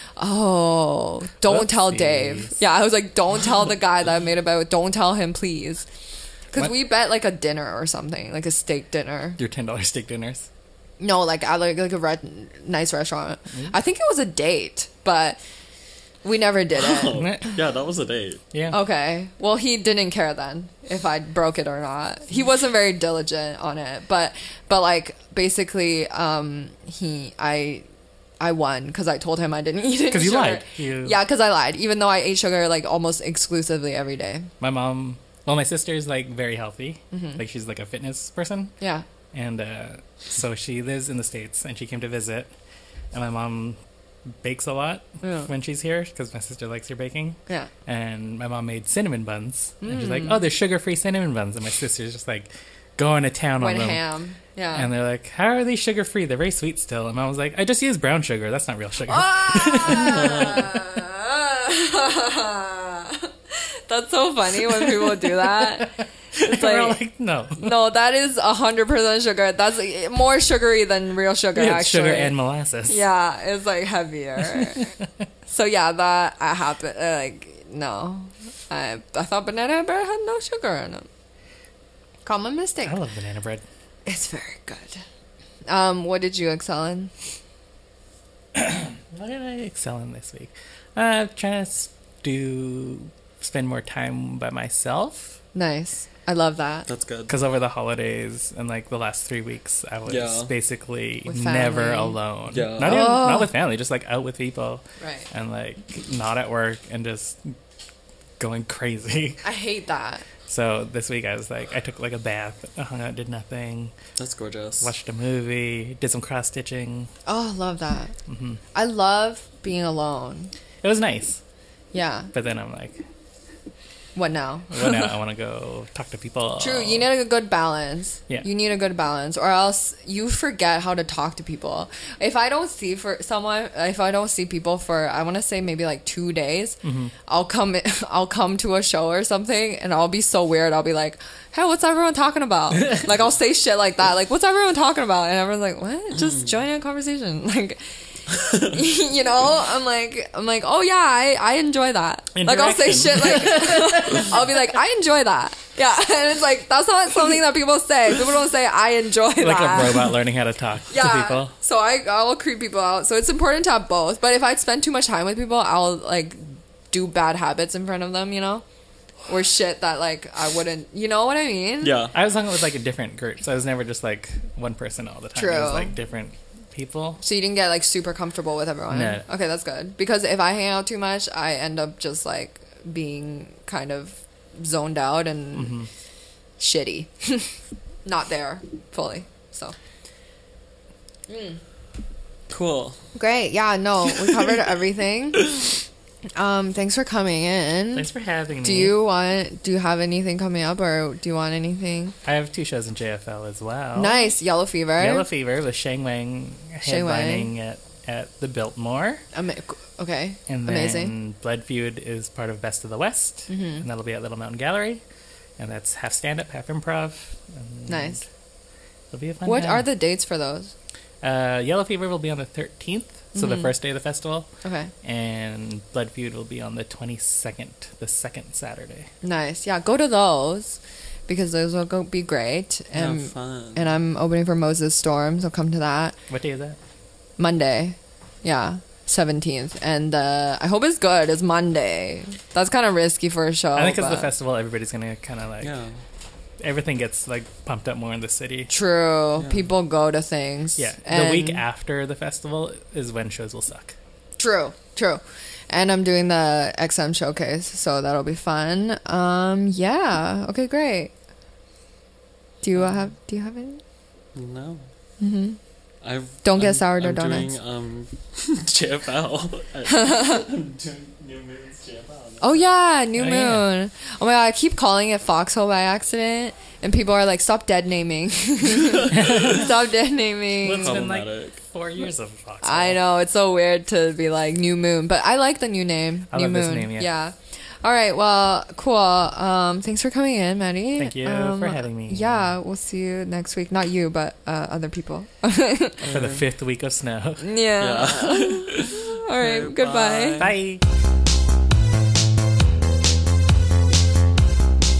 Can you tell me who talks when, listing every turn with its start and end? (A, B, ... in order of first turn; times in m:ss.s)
0:00.2-0:05.8 A
0:01.4-0:02.6 B
0:06.5-0:09.4 A
0:09.4-0:10.5 B
0:11.0-0:15.4 A
0:16.2-0:17.2 A
0:16.7-0:18.4 C
0:17.1-0:17.6 B
0:18.7-0:27.8 A
0:28.4-0:34.5 A
0:30.1-0:31.2 B
0:34.6-0:38.7 B
0:37.1-0:37.4 A
0:38.8-0:39.0 A
0:39.3-0:42.5 B
0:43.1-0:43.8 B
0:44.4-0:54.0 B
0:45.2-0:45.5 A
0:49.8-0:50.4 A
0:53.6-0:54.9 A
0:54.7-1:00.5 B
0:59.1-1:07.0 A
1:00.1-1:00.7 C
1:04.8-1:07.8 B
1:07.6-1:12.3 A
1:11.5-1:13.0 B
1:12.9-1:14.9 A
1:14.5-1:14.9 B
1:15.5-1:21.1 A
1:22.2-1:23.0 A
1:22.8-1:23.6 B
1:24.1-1:25.0 A
1:25.7-1:27.1 A
1:28.5-1:35.4 B
1:35.5-1:36.9 A
1:36.9-1:37.3 C
1:37.3-1:47.5 B
1:40.1-1:40.5 C
1:41.3-1:42.2 A
1:42.5-1:43.1 C
1:42.8-1:43.5 A
1:45.0-1:45.3 A
1:48.4-1:49.4 B
1:49.4-1:50.2 A
1:50.4-1:53.9 B
1:54.2-1:54.9 C
1:54.8-1:57.1 B
1:57.3-1:58.1 A
1:58.3-1:58.6 B
1:58.7-2:00.5 A
2:00.8-2:01.4 B
2:01.9-2:02.3 A
2:02.3-2:03.0 B
2:04.2-2:05.1 A
2:04.7-2:07.1 B
2:06.6-2:27.8 A
2:16.8-2:17.1 B
2:28.3-2:28.7 C
2:28.5-2:40.2 A
2:32.3-2:34.6 B
2:39.4-2:41.5 B
2:40.9-2:48.6 A
2:49.3-2:51.9 A
2:51.8-2:52.1 C
2:52.1-2:57.2 B
2:55.4-2:55.9 A
2:57.2-3:05.8 A
2:58.9-2:59.2 B
3:05.5-3:05.9 B
3:06.6-3:07.5 A
3:08.0-3:09.7 A
3:11.3-3:11.6 A
3:12.5-3:13.0 C
3:13.2-3:15.6 A
3:14.2-3:14.6 C
3:15.4-3:15.7 C
3:16.4-3:18.1 A
3:17.9-3:19.0 B
3:18.6-3:22.1 A
3:22.2-3:24.3 B
3:24.0-3:25.2 A
3:25.0-3:29.2 B
3:26.8-3:27.5 A
3:29.3-3:31.1 A
3:30.5-3:35.0 B
3:33.5-3:33.8 A
3:35.6-3:38.2 B
3:37.9-3:38.2 A
3:39.1-3:39.9 B
3:39.4-3:40.7 A
3:41.2-3:44.5 B
3:43.3-3:43.7 A
3:44.6-3:44.9 A
3:45.0-3:49.1 B
3:49.2-3:56.2 A
3:52.9-3:54.0 C
3:56.3-3:56.8 B
3:57.4-4:04.3 A
4:03.7-4:05.7 B
4:05.6-4:06.0 C
4:06.6-4:08.7 B
4:08.7-4:11.6 A
4:09.4-4:09.7 C
4:10.8-4:14.0 B
4:14.4-4:21.1 A
4:22.6-4:23.8 A
4:24.3-4:24.8 C
4:25.2-4:25.6 A
4:26.0-4:32.6 C
4:26.4-4:27.5 A
4:29.9-4:30.4 A
4:32.4-4:41.0 A
4:33.2-4:33.7 B
4:38.8-4:39.6 C
4:39.1-4:39.7 B
4:40.6-4:43.0 B
4:40.8-4:41.6 C
4:42.6-4:56.0 A
4:46.3-4:47.1 B
4:51.0-4:52.5 B
4:56.0-4:56.4 C
4:56.0-4:57.5 B
4:57.4-5:00.5 A
4:57.8-5:00.6 C
5:00.4-5:00.8 B